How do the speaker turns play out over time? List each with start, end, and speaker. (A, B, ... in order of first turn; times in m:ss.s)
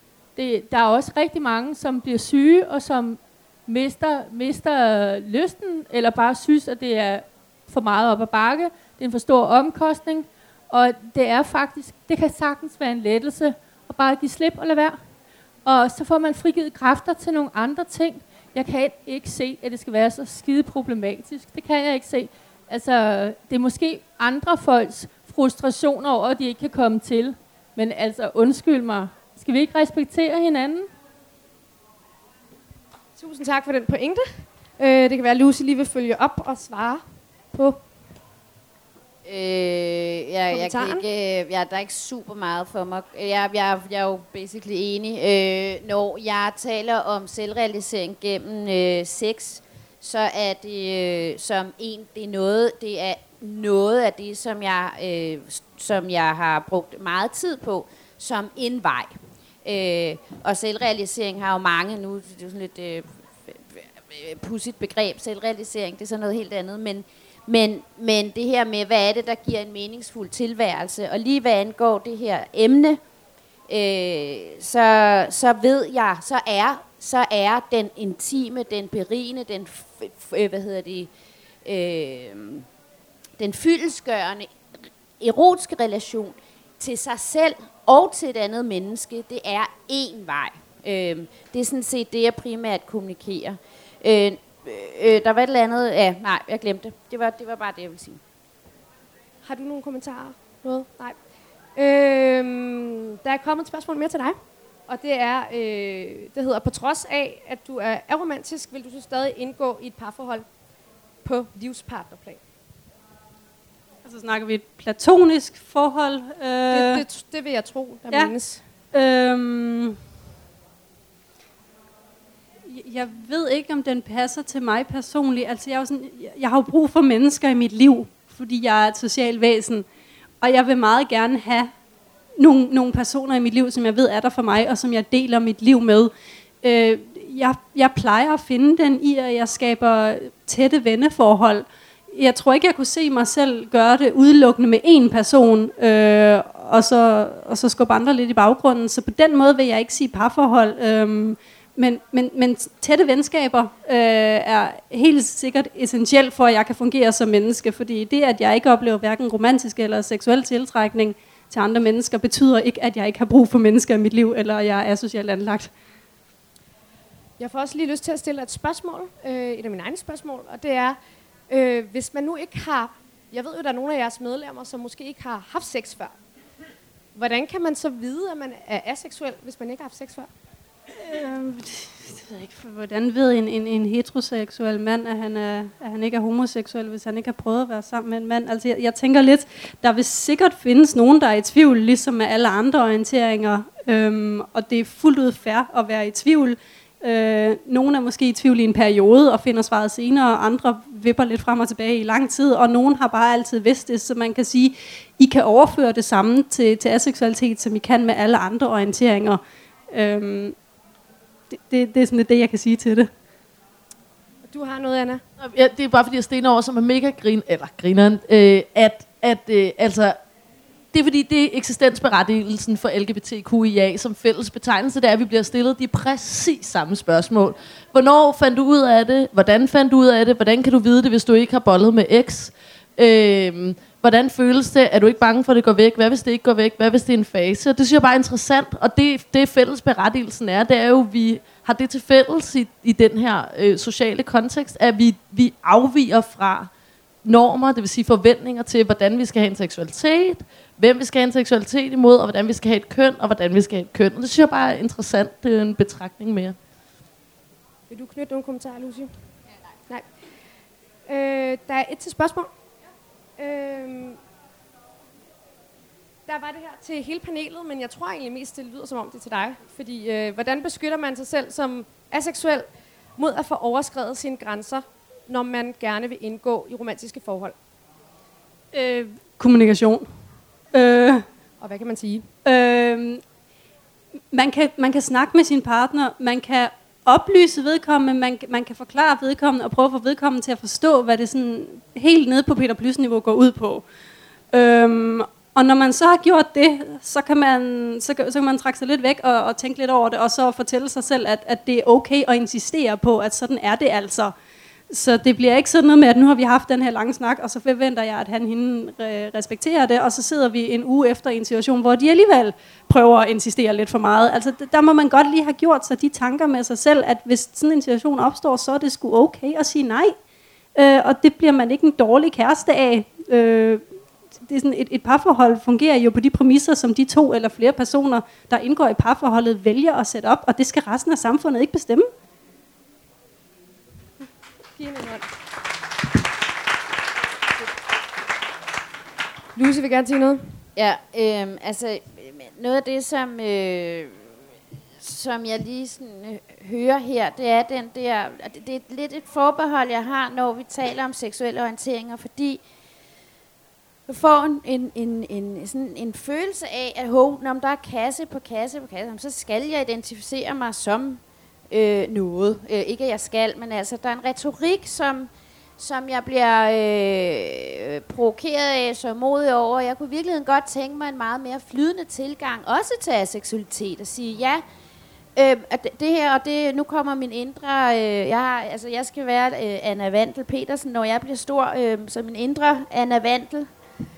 0:00.4-0:15.0 A
0:15.6-0:30.9 A
0:33.2-0:34.3 B
0:34.8-0:37.0 B
0:37.5-0:37.8 B
0:39.2-0:59.1 C
0:40.5-0:41.0 B
0:59.6-1:13.0 C
1:13.7-1:21.1 C
1:21.6-1:22.6 C
1:23.4-1:24.5 C
1:25.2-1:38.2 C
1:39.4-1:41.2 B
1:41.8-1:44.4 B
1:44.9-1:50.4 B
1:51.2-1:52.4 B
1:54.0-1:57.0 D
1:56.7-1:58.6 B
1:58.9-2:00.0 D
2:02.7-2:09.9 D
2:10.4-2:11.7 D
2:12.4-2:16.1 D
2:16.6-2:45.7 D
2:47.4-2:51.0 B
2:51.5-2:56.1 B
2:57.1-3:00.3 B
3:01.0-3:29.4 D
3:29.9-3:30.6 D
3:31.5-3:33.1 D
3:34.5-3:35.2 B
3:35.4-3:40.2 E
3:40.9-4:06.7 E
4:07.2-4:16.6 E
4:17.9-4:19.1 B
4:21.1-4:22.5 B
4:23.4-4:24.2 B
4:26.3-4:37.5 B
4:38.7-4:40.0 D
4:40.7-4:41.2 D
4:41.6-4:42.3 B
4:42.4-4:43.2 D
4:44.3-4:53.8 D
4:54.5-5:04.3 D
5:04.9-5:20.1 D
5:20.7-5:23.8 D
5:24.4-5:32.0 D
5:34.8-5:35.2 B
5:39.6-5:40.4 B
5:40.8-5:44.2 C
5:45.0-5:52.6 C
5:54.1-6:14.6 C
6:15.4-6:23.7 C